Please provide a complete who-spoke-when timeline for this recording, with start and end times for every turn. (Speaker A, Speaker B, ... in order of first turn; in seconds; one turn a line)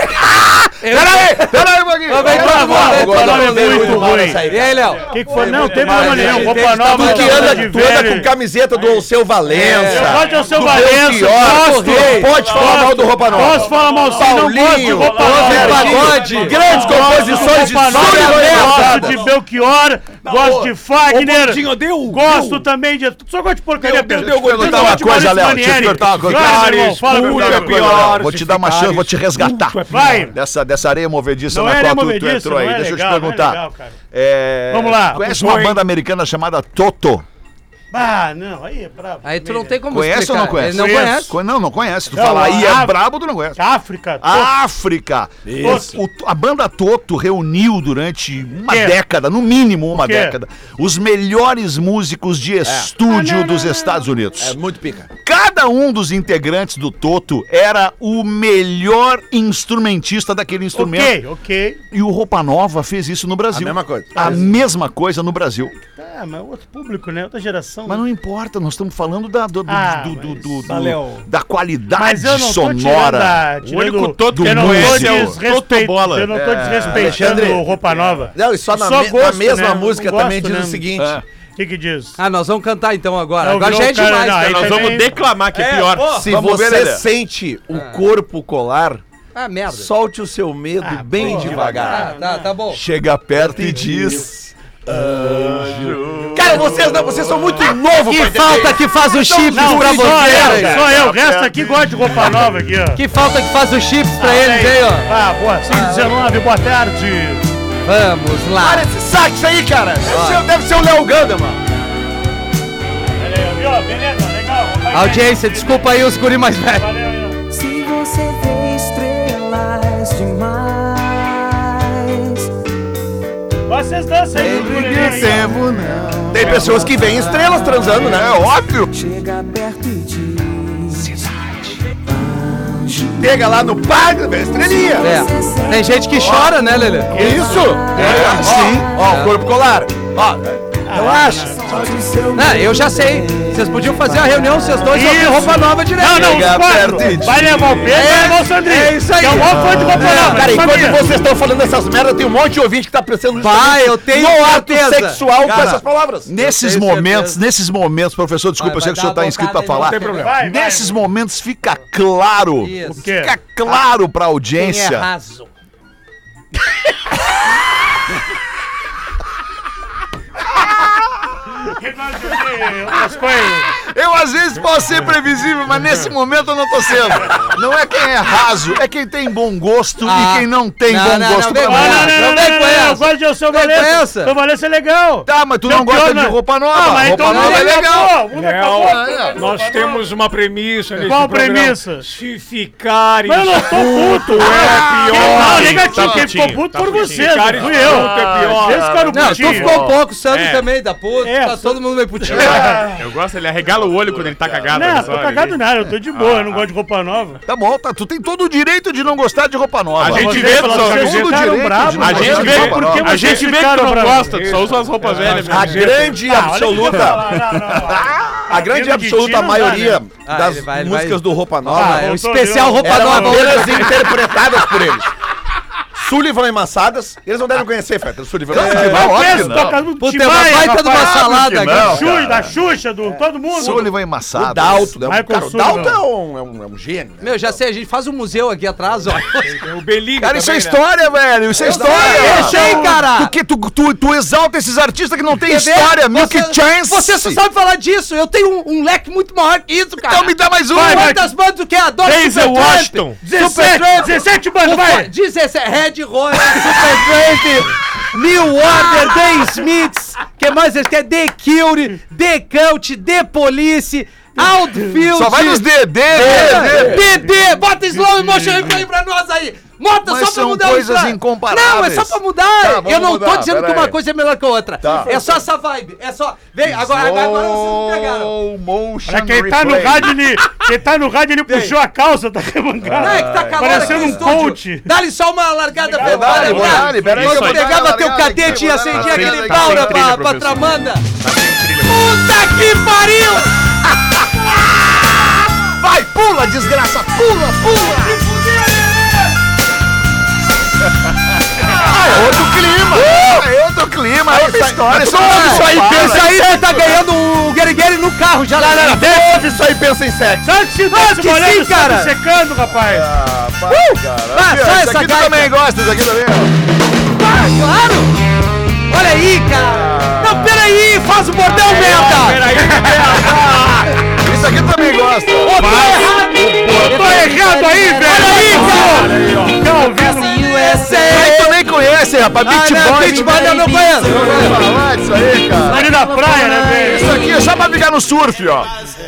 Speaker A: 0.8-5.1
Speaker B: 0.9-1.4
Speaker C: 1.0-2.6
Speaker B: 2.2-19.3
Speaker D: 2.2-4.5
Speaker D: 5.0-8.3
Speaker E: 5.1-6.5
Speaker A: 5.7-7.8
Speaker A: 9.5-10.3
Speaker D: 9.6-28.1
Speaker E: 10.1-10.6
Speaker A: 11.4-12.4
Speaker E: 12.2-19.3
Speaker A: 15.0-16.6
Speaker F: 16.8-17.5
Speaker A: 17.9-19.1
Speaker E: 20.2-22.7
Speaker E: 23.8-30.4
Speaker C: 24.2-37.3
Speaker D: 29.9-30.4
Speaker D: 31.5-34.0
Speaker D: 34.7-35.3
Speaker E: 35.1-35.8
Speaker D: 37.9-39.8
Speaker A: 39.2-41.4
Speaker C: 39.9-43.6
Speaker D: 42.1-43.0
Speaker D: 43.6-44.5
Speaker C: 44.2-54.6
Speaker B: 45.5-46.0
Speaker D: 45.6-45.9
Speaker D: 48.7-49.0
Speaker D: 49.9-50.4
Speaker B: 52.6-52.9
Speaker D: 53.0-54.1
Speaker B: 54.4-55.1
Speaker C: 55.2-61.2
Speaker D: 60.7-61.8
Speaker C: 61.9-65.7
Speaker B: 63.5-64.5
Speaker D: 64.2-64.5
Speaker D: 65.7-68.0
Speaker C: 67.9-73.5
Speaker D: 69.7-70.7
Speaker E: 70.7-71.3
Speaker D: 71.9-80.9
Speaker F: 73.6-76.3
Speaker C: 74.3-75.4
Speaker C: 76.3-77.7
Speaker B: 76.8-77.7
Speaker B: 78.3-81.2
Speaker C: 81.0-81.2
Speaker D: 81.6-82.2
Speaker A: 82.2-84.8
Speaker D: 83.4-85.2
Speaker F: 84.4-86.2
Speaker E: 85.5-86.3
Speaker B: 86.2-89.0
Speaker C: 86.3-87.1
Speaker A: 87.7-88.0
Speaker A: 89.3-89.9
Speaker B: 89.7-92.2
Speaker D: 90.8-92.5
Speaker C: 91.4-91.8
Speaker A: 91.5-92.8
Speaker C: 92.7-94.3
Speaker B: 93.5-101.5
Speaker C: 94.9-97.1
Speaker A: 98.0-100.9
Speaker D: 99.5-103.0
Speaker C: 101.0-102.2
Speaker A: 103.0-105.1
Speaker D: 104.2-107.5
Speaker A: 107.8-108.9
Speaker B: 108.6-111.6
Speaker A: 110.1-110.5
Speaker D: 113.2-115.8
Speaker A: 114.9-116.9
Speaker D: 116.8-117.4
Speaker G: 117.5-122.5
Speaker D: 123.7-125.5
Speaker C: 124.4-126.8
Speaker G: 125.9-128.2
Speaker B: 126.3-128.4
Speaker C: 128.0-128.9
Speaker G: 128.9-131.2
Speaker C: 130.9-131.7
Speaker G: 131.9-133.4
Speaker B: 133.2-135.1
Speaker G: 134.6-139.2
Speaker A: 135.0-137.2
Speaker B: 137.1-142.2
Speaker D: 137.1-137.8
Speaker C: 137.9-138.9
Speaker A: 138.0-138.4
Speaker A: 139.0-139.3
Speaker D: 140.9-141.7
Speaker G: 141.0-144.8
Speaker A: 142.3-146.4
Speaker D: 144.9-151.2
Speaker C: 146.1-147.8
Speaker G: 147.0-147.3
Speaker A: 147.8-150.7
Speaker C: 149.5-150.2
Speaker B: 150.0-156.3
Speaker A: 153.4-155.8
Speaker C: 155.4-165.1
Speaker A: 156.3-157.4
Speaker A: 158.6-160.3
Speaker E: 159.7-160.5
Speaker D: 160.2-161.0
Speaker A: 162.6-163.0
Speaker D: 162.9-163.4
Speaker A: 164.6-165.4
Speaker C: 170.7-171.0
Speaker D: 171.7-173.7
Speaker C: 173.8-182.2
Speaker A: 180.0-184.3
Speaker D: 181.5-190.1
Speaker C: 185.3-189.4
Speaker A: 187.2-187.7
Speaker E: 188.3-196.4
Speaker D: 191.0-192.1
Speaker D: 193.3-200.0
Speaker F: 195.1-198.1
Speaker E: 197.1-199.0
Speaker C: 197.8-200.0
Speaker A: 199.1-202.7
Speaker F: 200.3-200.7
Speaker D: 201.2-202.9
Speaker F: 202.4-205.6
Speaker D: 204.7-207.4
Speaker C: 205.8-206.5
Speaker C: 207.5-213.3
Speaker F: 210.0-211.3
Speaker D: 210.0-214.5
Speaker F: 212.0-215.9
Speaker E: 212.1-216.4
Speaker B: 215.4-217.4
Speaker D: 216.2-220.0
Speaker C: 217.0-218.5
Speaker B: 218.5-222.1
Speaker A: 220.2-224.0
Speaker D: 221.7-224.0
Speaker B: 222.8-225.1
Speaker B: 225.9-229.7
Speaker C: 228.5-229.8
Speaker D: 228.6-233.9
Speaker A: 230.0-232.0
Speaker C: 230.9-232.6
Speaker B: 233.0-237.6
Speaker C: 233.5-235.0
Speaker D: 235.0-236.0
Speaker A: 237.2-239.6
Speaker E: 239.3-240.8
Speaker C: 240.2-247.4
Speaker A: 241.6-243.3
Speaker B: 241.6-242.8
Speaker D: 242.4-242.9
Speaker A: 245.4-278.3
Speaker C: 250.0-251.2
Speaker D: 250.8-251.3
Speaker F: 252.0-253.2
Speaker D: 253.2-255.1
Speaker D: 264.4-264.9
Speaker C: 265.1-267.1
Speaker B: 266.5-266.8
Speaker D: 268.0-268.8
Speaker C: 270.0-274.0
Speaker C: 274.8-275.3
Speaker C: 276.6-280.3
Speaker D: 279.1-284.9
Speaker A: 281.5-281.8
Speaker C: 282.8-284.3
Speaker A: 283.0-291.1
Speaker D: 285.8-286.7
Speaker C: 286.0-290.1
Speaker F: 286.3-287.7
Speaker F: 288.9-292.0
Speaker A: 291.8-293.5
Speaker C: 295.7-298.2
Speaker C: 301.6-306.4
Speaker B: 301.8-303.2
Speaker B: 304.3-307.0
Speaker A: 305.1-309.1
Speaker D: 308.6-309.6
Speaker B: 308.8-310.6
Speaker D: 310.4-313.2
Speaker A: 310.9-312.2
Speaker C: 312.7-316.6
Speaker A: 313.7-315.5
Speaker A: 317.1-318.2
Speaker A: 318.9-322.5
Speaker C: 319.6-320.6
Speaker E: 321.4-323.8
Speaker D: 322.6-323.0
Speaker C: 324.1-325.7
Speaker A: 325.4-329.2
Speaker D: 326.7-330.5
Speaker G: 327.0-331.7
Speaker E: 328.4-329.6
Speaker A: 329.8-331.6
Speaker C: 331.1-338.7
Speaker A: 332.4-334.6
Speaker D: 335.6-337.3
Speaker A: 336.4-337.3